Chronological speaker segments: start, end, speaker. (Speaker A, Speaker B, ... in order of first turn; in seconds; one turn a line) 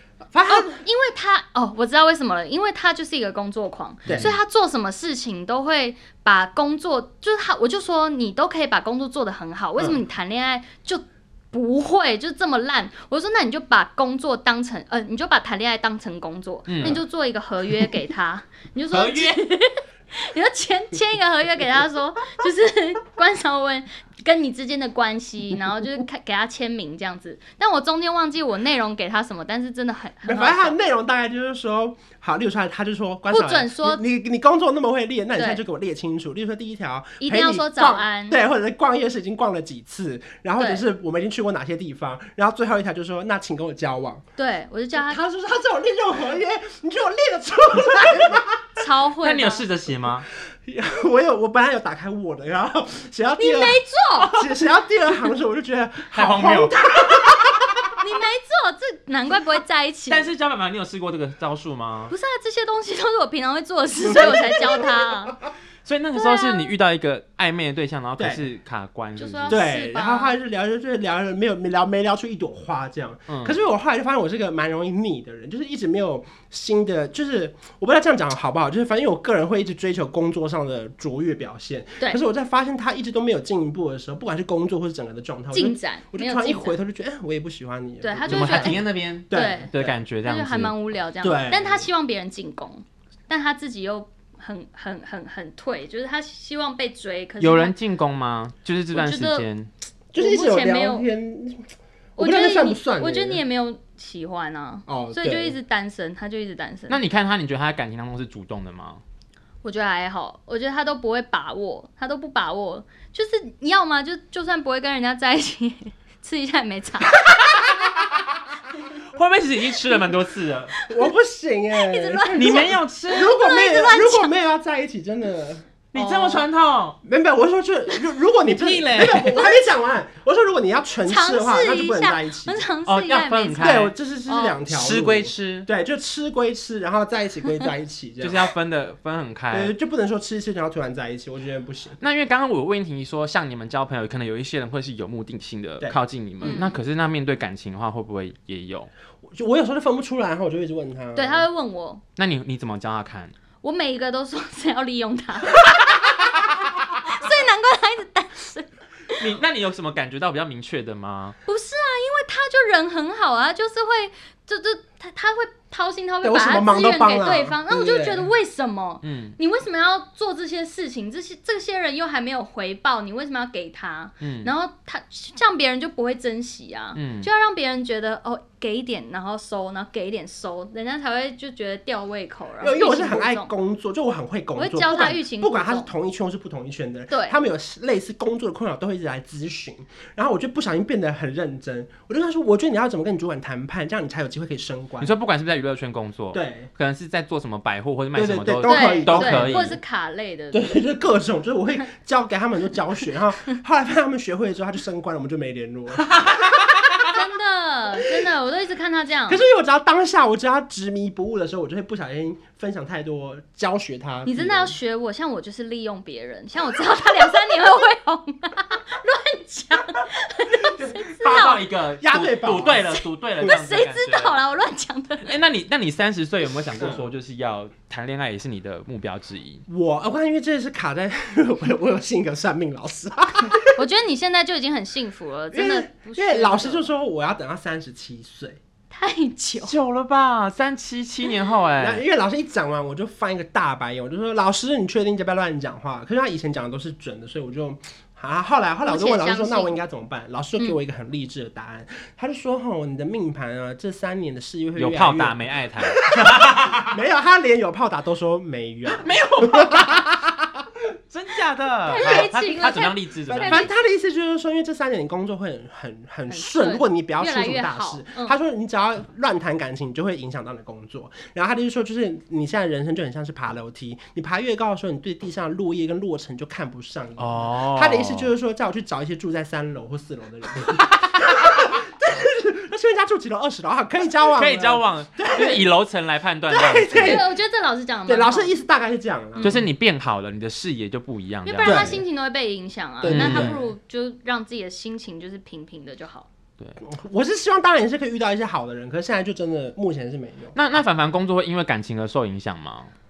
Speaker A: 0.3-0.8
Speaker B: 0.5-30.8
Speaker A: 4.0-4.3
Speaker C: 4.1-4.3
Speaker C: 16.7-17.0
Speaker C: 18.9-19.4
Speaker A: 30.2-44.2
Speaker B: 33.3-34.0
Speaker B: 37.2-38.4
Speaker B: 40.6-40.8
Speaker B: 44.4-45.2
Speaker A: 44.9-48.8
Speaker B: 48.8-49.6
Speaker C: 49.2-50.3
Speaker A: 50.5-53.8
Speaker B: 53.4-54.4
Speaker A: 54.3-58.0
Speaker C: 56.1-57.3
Speaker B: 58.0-60.3
Speaker C: 60.1-62.1
Speaker B: 62.1-65.3
Speaker A: 64.0-65.1
Speaker C: 65.8-69.6
Speaker B: 66.1-66.7
Speaker A: 68.2-68.4
Speaker B: 69.2-70.3
Speaker A: 69.5-89.9
Speaker C: 73.3-73.6
Speaker B: 85.5-86.8
Speaker B: 88.0-89.7
Speaker C: 88.3-90.7
Speaker B: 90.2-97.7
Speaker A: 91.2-91.8
Speaker C: 97.4-99.7
Speaker B: 98.9-99.5
Speaker A: 100.1-103.4
Speaker B: 100.2-101.0
Speaker B: 102.2-107.0
Speaker A: 104.9-105.5
Speaker C: 106.9-109.0
Speaker B: 109.6-117.2
Speaker C: 119.1-120.7
Speaker B: 120.8-121.1
Speaker A: 120.8-126.2
Speaker B: 121.7-124.3
Speaker C: 122.3-123.3
Speaker C: 125.9-127.0
Speaker B: 126.0-126.4
Speaker A: 127.0-132.7
Speaker C: 128.4-129.4
Speaker B: 129.2-129.7
Speaker B: 131.1-134.6
Speaker C: 132.8-133.9
Speaker A: 133.6-138.5
Speaker C: 134.7-135.7
Speaker C: 138.2-139.7
Speaker A: 139.5-142.0
Speaker C: 142.0-148.9
Speaker A: 145.8-146.7
Speaker B: 146.4-146.8
Speaker A: 149.2-151.4
Speaker B: 151.1-152.0
Speaker C: 152.2-153.3
Speaker B: 153.6-155.8
Speaker B: 156.3-159.3
Speaker C: 159.2-161.4
Speaker B: 161.5-183.5
Speaker A: 166.2-168.3
Speaker C: 169.0-169.3
Speaker C: 174.2-174.5
Speaker C: 176.9-177.3
Speaker A: 182.6-195.1
Speaker B: 184.6-185.9
Speaker B: 187.1-187.4
Speaker C: 195.0-199.8
Speaker A: 196.3-196.7
Speaker A: 198.1-199.7
Speaker B: 198.6-200.8
Speaker A: 200.5-207.2
Speaker C: 206.1-207.1
Speaker B: 207.1-209.4
Speaker A: 209.3-214.7
Speaker B: 214.2-221.6
Speaker C: 220.8-224.3
Speaker A: 222.0-222.9
Speaker B: 223.4-225.3
Speaker C: 225.2-229.6
Speaker A: 226.8-227.0
Speaker A: 229.7-233.8
Speaker B: 233.8-236.9
Speaker A: 235.5-238.6
Speaker B: 238.9-239.7
Speaker C: 239.6-242.0
Speaker A: 241.8-260.6
Speaker B: 248.8-249.7
Speaker C: 254.8-257.0
Speaker C: 258.9-260.1
Speaker C: 261.1-263.7
Speaker B: 261.9-263.7
Speaker A: 262.0-262.3
Speaker A: 263.3-285.7
Speaker B: 266.3-268.4
Speaker C: 277.2-278.3
Speaker C: 284.2-287.2
Speaker A: 286.5-287.3
Speaker B: 286.9-288.5
Speaker A: 288.1-289.6
Speaker B: 289.4-289.6
Speaker C: 289.4-292.0
Speaker B: 291.4-296.3
Speaker A: 291.6-292.0
Speaker A: 293.0-293.7
Speaker C: 293.1-293.6
Speaker A: 296.8-300.6
Speaker C: 300.5-302.9